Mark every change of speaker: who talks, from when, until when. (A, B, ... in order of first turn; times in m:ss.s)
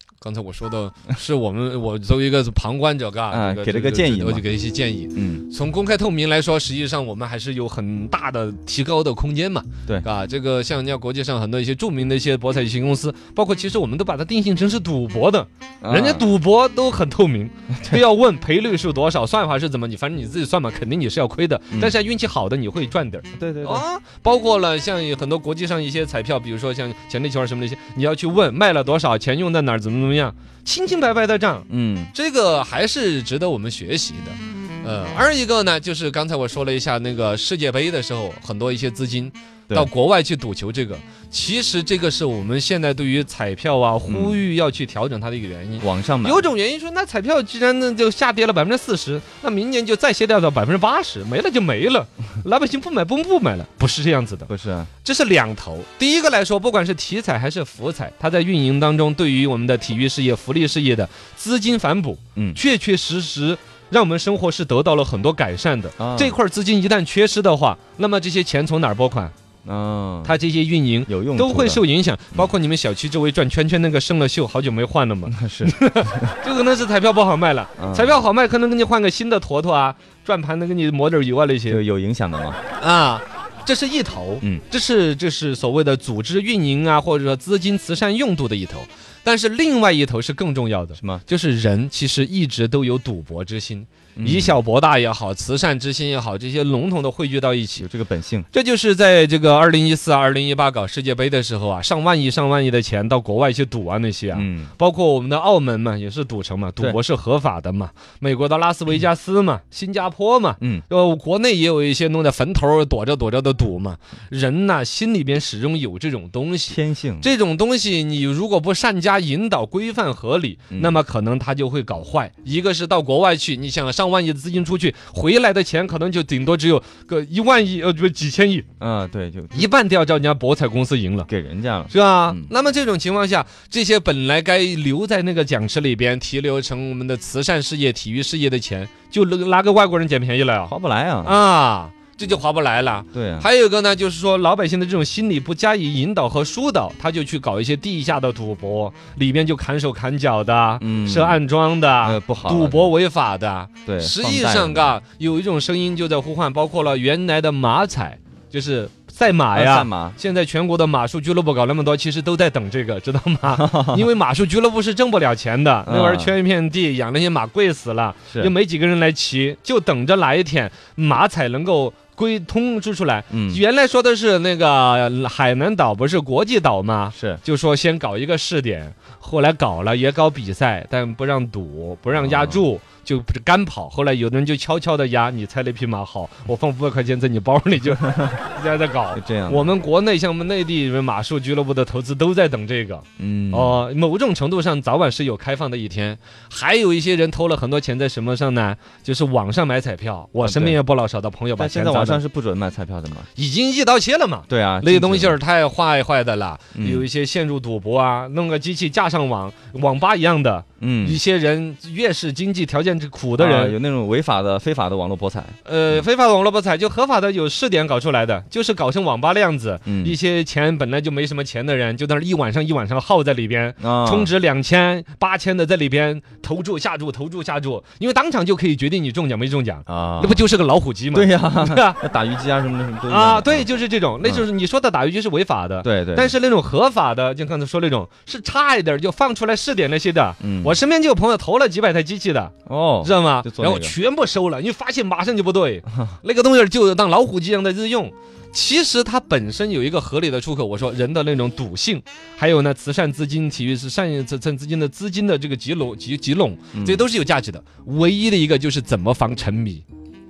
0:00.2-0:54.5 A
0:03.3-0:04.4 B
0:05.1-0:05.4 B
0:15.8-0:16.3 B
0:17.7-0:18.0 B
0:23.4-0:23.9 B
0:31.7-0:32.1 B
0:44.1-0:44.4 B
0:45.8-0:46.5 B
0:54.5-0:54.9 B
0:55.0-1:09.3 A
1:06.0-1:06.4 B
1:09.6-1:10.4 B
1:10.2-1:21.8 A
1:11.0-1:12.5 B
1:15.3-1:16.4 B
1:17.8-1:18.2 B
1:21.7-1:22.6 B
1:22.8-1:37.9 A
1:31.0-1:31.2 B
1:34.2-1:34.6 B
1:37.8-1:38.5 B
1:38.5-2:08.7 A
1:44.3-1:44.7 B
1:50.6-1:50.8 B
1:56.7-1:57.3 B
2:00.7-2:01.0 B
2:08.8-2:09.7 B
2:09.5-2:11.3 A
2:11.3-2:12.5 B
2:11.9-2:20.7 A
2:20.7-2:21.4 B
2:21.2-3:22.2 A
2:23.1-2:23.5 B
2:30.8-2:31.4 B
2:32.0-2:32.9 B
2:33.8-2:35.0 B
2:39.5-2:40.2 B
2:43.5-2:44.0 B
2:45.8-2:46.3 B
2:53.3-2:53.6 B
2:57.1-2:57.4 B
3:02.2-3:02.6 B
3:09.1-3:09.7 B
3:13.2-3:13.8 B
3:20.4-3:20.8 B
3:21.6-3:23.3 B
3:23.4-3:33.8 A
3:24.5-3:25.4 B
3:26.8-3:27.1 B
3:30.8-3:31.2 B
3:33.4-3:36.0 B
3:35.6-3:52.0 A
3:39.9-3:40.2 B
3:43.8-3:44.3 B
3:49.9-3:50.4 B
3:51.1-3:53.7 B
3:53.1-4:19.8 A
3:55.8-3:56.4 B
4:00.4-4:00.8 B
4:02.6-4:04.0 B
4:16.7-4:17.0 B